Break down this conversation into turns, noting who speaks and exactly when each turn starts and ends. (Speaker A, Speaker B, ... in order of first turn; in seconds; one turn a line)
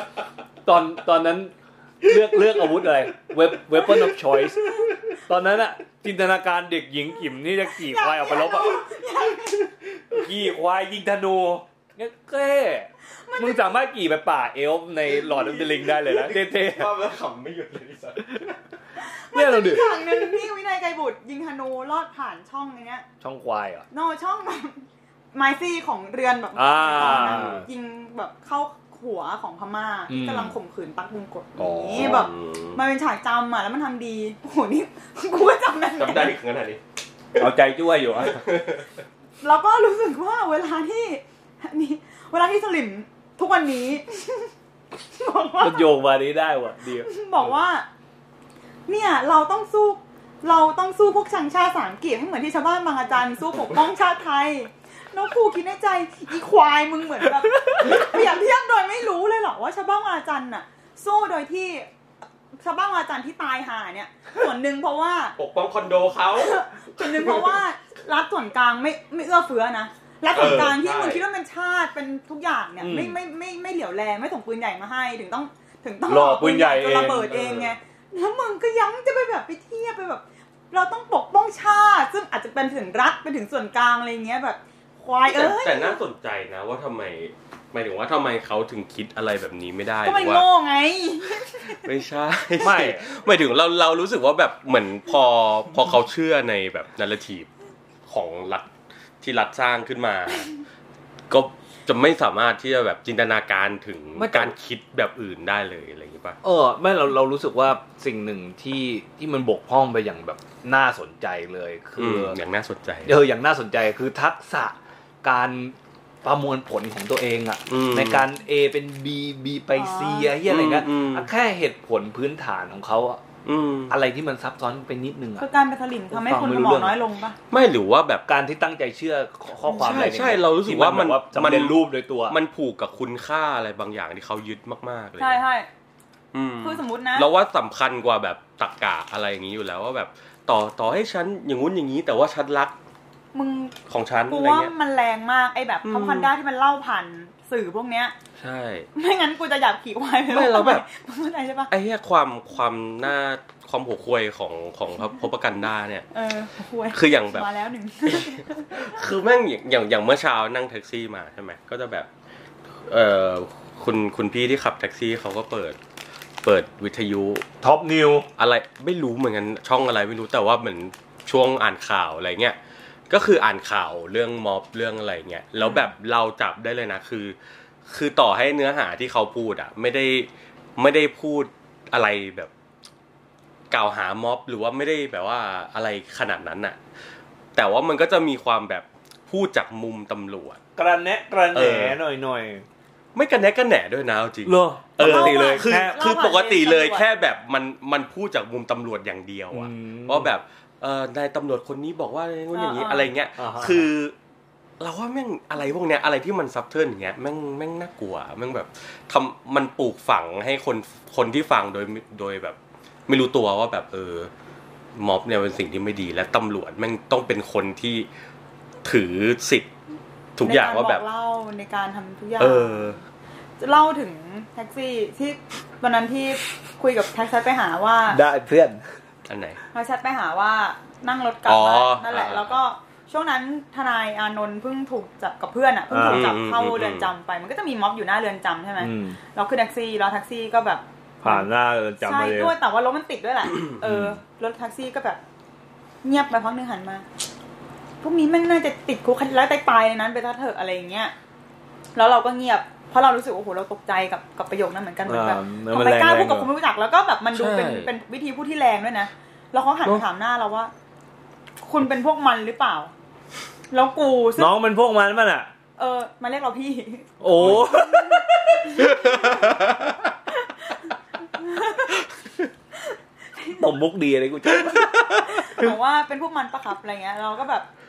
Speaker A: 0.7-8.8
Speaker B: 7.6-9.7
Speaker A: 10.1-17.0
Speaker B: 13.2-13.8
Speaker C: 15.2-18.6
Speaker B: 19.0-23.1
Speaker A: 19.3-20.2
Speaker A: 23.2-23.9
Speaker B: 23.9-36.4
Speaker A: 26.6-27.7
Speaker C: 27.0-27.6
Speaker A: 30.1-30.6
Speaker A: 31.6-32.3
Speaker C: 32.0-32.8
Speaker C: 36.0-36.8
Speaker A: 37.4-38.4
Speaker C: 38.1-38.9
Speaker B: 39.4-44.5
Speaker B: 45.1-46.0
Speaker A: 45.6-47.1
Speaker B: 47.0-47.9
Speaker B: 48.9-61.9
Speaker B: 62.5-65.4
Speaker C: 65.4-67.6
Speaker B: 66.4-86.0
Speaker C: 70.3-71.2
Speaker A: 72.8-73.2
Speaker A: 76.1-77.4
Speaker C: 77.1-77.7
Speaker C: 85.3-90.4
Speaker B: 90.0-91.8
Speaker C: 91.7-97.5
Speaker A: 92.6-93.1
Speaker C: 98.1-98.7
Speaker C: 99.2-100.5
Speaker C: 101.3-106.4
Speaker A: 104.2-104.5
Speaker A: 106.4-112.4
Speaker C: 112.0-113.2
Speaker A: 113.0-123.2
Speaker C: 117.7-118.2
Speaker B: 119.8-120.3
Speaker C: 120.4-121.3
Speaker C: 123.5-123.9
Speaker A: 123.9-125.5
Speaker B: 125.4-127.4
Speaker A: 126.1-127.0
Speaker C: 127.5-128.3
Speaker A: 128.3-132.4
Speaker B: 129.7-130.1
Speaker C: 129.8-135.4
Speaker B: 135.2-135.7
Speaker C: 136.3-142.7
Speaker B: 136.6-137.3
Speaker B: 143.3-143.8
Speaker C: 143.9-144.7
Speaker B: 144.3-148.1
Speaker C: 145.8-146.3
Speaker C: 148.4-148.9
Speaker B: 148.9-151.7
Speaker C: 150.3-150.8
Speaker C: 151.7-156.1
Speaker B: 156.1-159.0
Speaker C: 156.9-157.5
Speaker C: 158.1-162.1
Speaker C: 162.9-165.8
Speaker C: 166.4-167.4
Speaker A: 167.6-168.3
Speaker C: 168.4-172.6
Speaker C: 173.1-177.4
Speaker B: 175.6-175.9
Speaker C: 177.9-182.5
Speaker C: 183.7-186.8
Speaker C: 187.6-190.6
Speaker A: 190.8-192.7
Speaker C: 191.5-192.0
Speaker C: 193.2-204.2
Speaker A: 194.5-196.0
Speaker B: 195.0-197.1
Speaker A: 199.5-200.3
Speaker B: 202.5-203.1
Speaker A: 203.4-203.9
Speaker C: 204.8-214.3
Speaker C: 214.9-218.1
Speaker C: 218.8-219.7
Speaker C: 220.4-221.0
Speaker B: 220.4-223.0
Speaker C: 222.4-223.0
Speaker B: 223.6-228.2
Speaker A: 228.1-228.8
Speaker C: 229.3-229.6
Speaker B: 229.7-241.5
Speaker C: 231.5-232.6
Speaker A: 235.9-236.3
Speaker C: 236.0-237.1
Speaker A: 238.8-239.2
Speaker A: 241.2-242.6
Speaker B: 242.0-245.2
Speaker A: 243.8-244.1
Speaker B: 246.0-247.1
Speaker B: 248.0-251.1
Speaker B: 252.0-260.7
Speaker A: 255.1-256.5
Speaker C: 257.3-257.9
Speaker B: 261.6-262.9
Speaker B: 263.7-264.6
Speaker A: 264.4-265.5
Speaker B: 265.8-269.6
Speaker A: 267.2-268.2
Speaker C: 267.4-267.7
Speaker C: 268.8-270.1
Speaker B: 270.4-272.1
Speaker B: 272.8-273.6
Speaker A: 273.5-275.0
Speaker C: 274.8-275.6
Speaker B: 274.9-277.7